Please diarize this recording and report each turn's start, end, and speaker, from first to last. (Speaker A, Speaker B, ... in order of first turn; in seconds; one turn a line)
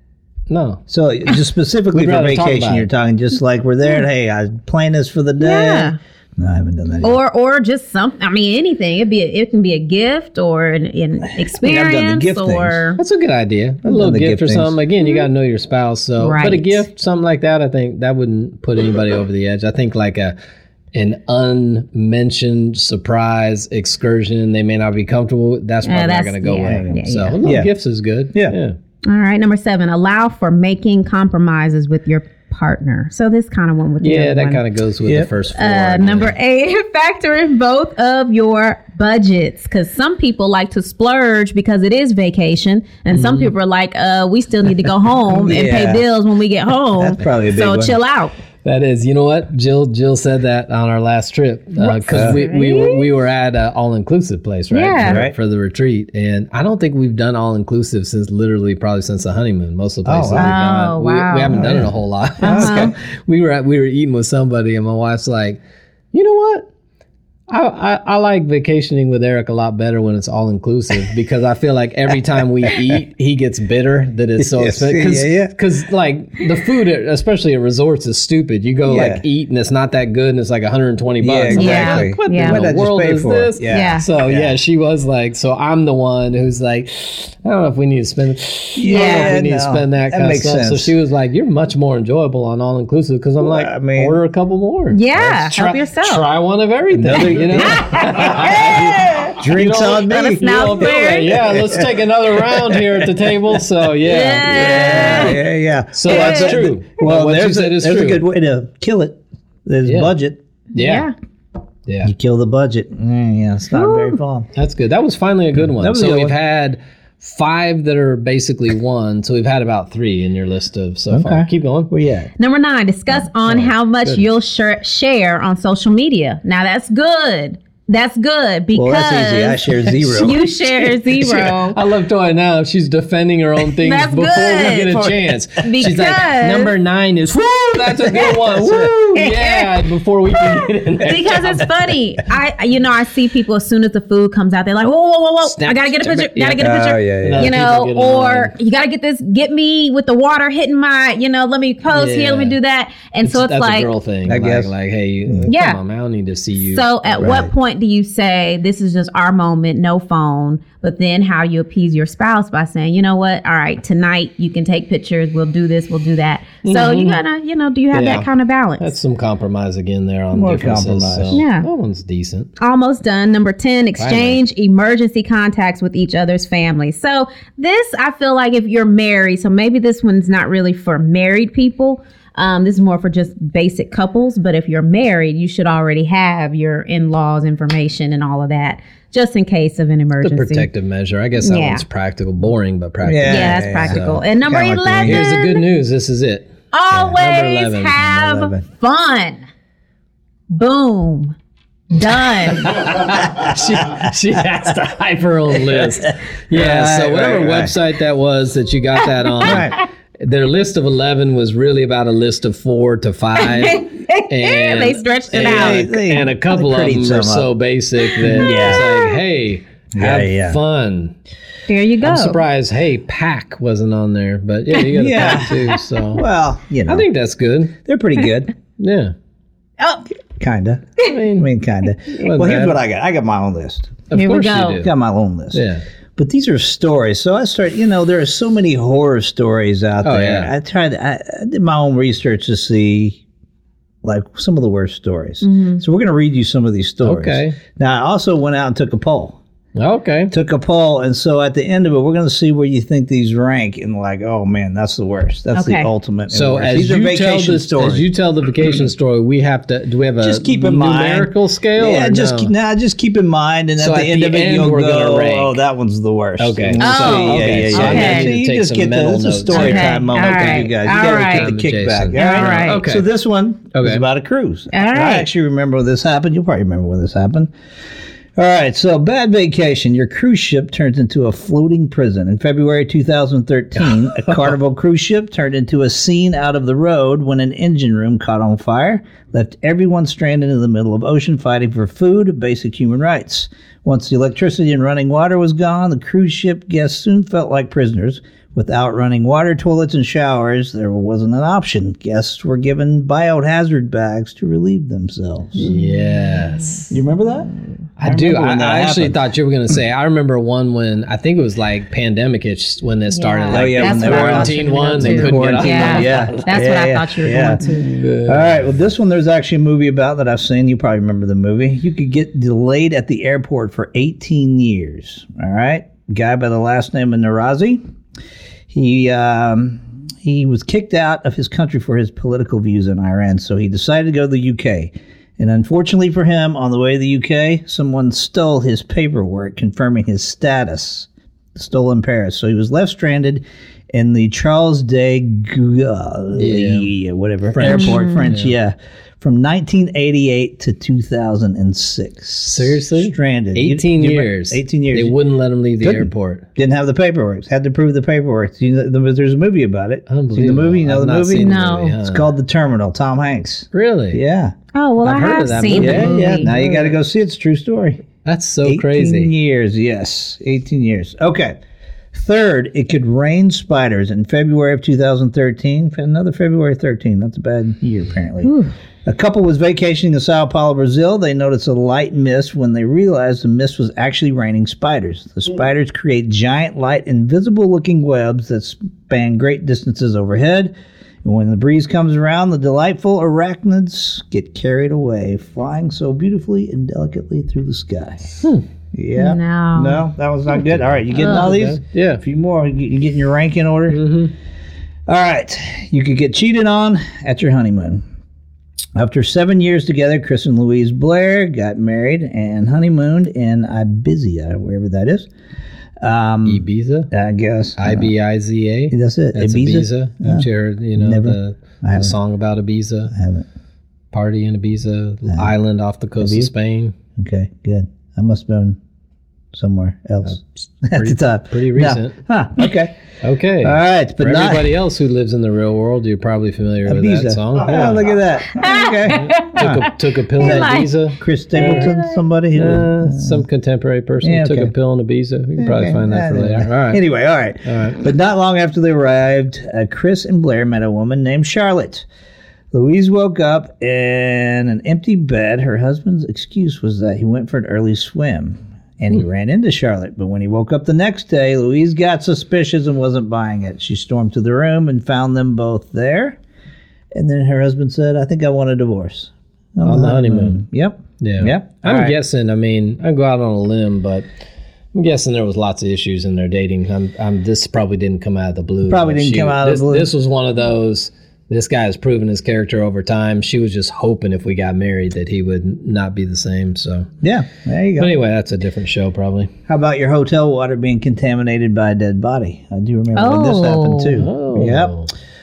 Speaker A: 0.5-0.8
Speaker B: 0.9-7.2
Speaker A: 1.9-2.9
Speaker C: 5.4-6.0
Speaker C: 7.0-13.0
Speaker B: 11.4-12.8
Speaker A: 13.0-20.4
Speaker B: 13.8-14.8
Speaker C: 16.2-16.9
Speaker A: 20.9-28.8
Speaker C: 25.9-27.4
Speaker B: 26.6-27.7
Speaker C: 29.1-34.6
Speaker A: 34.0-36.4
Speaker B: 35.0-35.3
Speaker C: 35.5-48.3
Speaker A: 43.1-43.5
Speaker B: 45.3-46.1
Speaker B: 47.0-48.0
Speaker A: 48.6-65.6
Speaker C: 51.8-53.1
Speaker B: 52.1-52.4
Speaker C: 54.7-55.2
Speaker B: 55.0-55.4
Speaker B: 60.0-60.6
Speaker C: 60.4-61.6
Speaker B: 61.5-63.0
Speaker C: 62.4-62.9
Speaker A: 66.1-66.7
Speaker A: 67.5-105.4
Speaker B: 74.4-75.5
Speaker B: 78.9-79.2
Speaker B: 81.2-84.6
Speaker C: 81.5-82.7
Speaker C: 83.7-84.1
Speaker B: 88.8-90.9
Speaker C: 88.9-89.4
Speaker B: 93.4-94.2
Speaker C: 94.9-96.3
Speaker B: 95.2-95.5
Speaker B: 96.9-103.1
Speaker C: 97.6-99.4
Speaker C: 100.0-101.3
Speaker C: 104.0-105.4
Speaker B: 104.5-110.4
Speaker A: 106.0-108.2
Speaker C: 106.1-106.6
Speaker A: 109.8-110.1
Speaker C: 110.7-111.1
Speaker A: 110.8-111.1
Speaker B: 112.0-114.5
Speaker C: 113.7-114.2
Speaker A: 114.5-121.9
Speaker B: 115.8-116.3
Speaker B: 121.1-122.3
Speaker C: 122.4-131.8
Speaker A: 123.5-124.2
Speaker B: 128.7-131.4
Speaker A: 131.2-141.6
Speaker C: 133.8-136.8
Speaker C: 138.1-139.8
Speaker B: 138.6-138.9
Speaker C: 140.4-153.9
Speaker A: 145.4-148.5
Speaker B: 146.6-147.6
Speaker A: 151.9-152.6
Speaker A: 153.2-157.3
Speaker B: 154.3-154.7
Speaker C: 155.5-155.8
Speaker C: 156.7-168.9
Speaker B: 157.2-157.5
Speaker A: 166.6-167.2
Speaker A: 167.9-172.5
Speaker B: 170.3-171.4
Speaker C: 171.3-171.7
Speaker C: 172.6-190.7
Speaker A: 174.0-174.4
Speaker A: 190.2-194.2
Speaker C: 191.4-191.8
Speaker B: 193.0-195.3
Speaker C: 193.3-195.6
Speaker A: 195.0-198.0
Speaker C: 196.7-199.5
Speaker B: 198.0-198.6
Speaker C: 200.5-201.4
Speaker C: 201.9-202.9
Speaker A: 202.6-221.1
Speaker B: 203.3-204.0
Speaker B: 205.7-207.8
Speaker B: 209.4-209.8
Speaker C: 213.4-215.9
Speaker B: 215.3-217.5
Speaker C: 218.2-219.2
Speaker B: 218.2-218.9
Speaker B: 219.9-220.6
Speaker C: 221.7-222.4
Speaker A: 222.0-226.2
Speaker B: 224.9-227.1
Speaker C: 225.5-225.8
Speaker A: 226.9-227.8
Speaker B: 227.8-228.5
Speaker A: 228.8-229.1
Speaker B: 230.4-234.0
Speaker A: 231.0-231.5
Speaker A: 232.1-232.8
Speaker A: 234.1-234.9
Speaker C: 234.1-234.9
Speaker B: 234.8-235.6
Speaker A: 235.5-235.8
Speaker B: 236.2-243.2
Speaker A: 240.0-240.5
Speaker B: 244.0-249.4
Speaker C: 245.4-245.8
Speaker A: 247.0-247.6
Speaker A: 249.8-250.3
Speaker B: 250.3-258.1
Speaker C: 255.5-255.9
Speaker A: 256.3-262.5
Speaker B: 260.2-277.5
Speaker A: 263.8-265.6
Speaker A: 266.4-273.1
Speaker C: 266.8-268.3
Speaker C: 269.5-271.5
Speaker C: 272.1-272.8
Speaker A: 273.8-274.0
Speaker C: 274.7-275.3
Speaker B: 278.4-305.7
Speaker A: 305.6-307.0
Speaker B: 306.9-307.5
Speaker A: 308.0-316.5
Speaker B: 308.0-309.2
Speaker C: 313.1-317.9
Speaker B: 313.5-327.8
Speaker A: 317.7-318.5
Speaker B: 328.7-355.2
Speaker A: 346.4-346.9
Speaker A: 347.5-348.5
Speaker C: 347.6-348.3
Speaker A: 352.4-356.5
Speaker B: 355.8-364.5
Speaker A: 360.1-362.3
Speaker C: 361.4-362.0
Speaker A: 363.7-364.2
Speaker C: 364.7-366.5
Speaker A: 365.0-366.9
Speaker B: 365.8-368.1
Speaker A: 368.2-369.3
Speaker B: 368.6-371.6
Speaker B: 372.1-378.5
Speaker C: 378.4-378.7
Speaker B: 379.1-390.7
Speaker B: 391.2-398.4
Speaker B: 398.9-404.1
Speaker C: 399.2-400.1
Speaker A: 401.0-402.2
Speaker C: 401.1-401.5
Speaker A: 403.9-404.3
Speaker B: 405.1-408.0
Speaker B: 408.9-415.3
Speaker B: 416.0-418.1
Speaker A: 416.5-417.1
Speaker A: 417.8-423.1
Speaker B: 418.9-422.1
Speaker B: 423.1-423.5
Speaker A: 424.1-426.9
Speaker B: 426.2-426.5
Speaker B: 427.2-428.8
Speaker B: 429.5-432.9
Speaker A: 430.3-432.2
Speaker A: 433.2-438.2
Speaker B: 433.6-434.8
Speaker B: 436.9-443.4
Speaker C: 438.5-442.2
Speaker A: 439.4-442.0
Speaker A: 442.5-447.0
Speaker B: 444.2-444.7
Speaker B: 445.6-452.1
Speaker A: 447.6-448.0
Speaker B: 452.7-466.4
Speaker B: 467.1-472.1
Speaker A: 469.8-470.6
Speaker A: 471.2-474.2
Speaker A: 474.9-487.1
Speaker B: 478.9-480.1
Speaker B: 487.2-488.1
Speaker A: 488.0-489.5
Speaker B: 489.7-494.9
Speaker C: 493.2-494.3
Speaker A: 494.2-495.1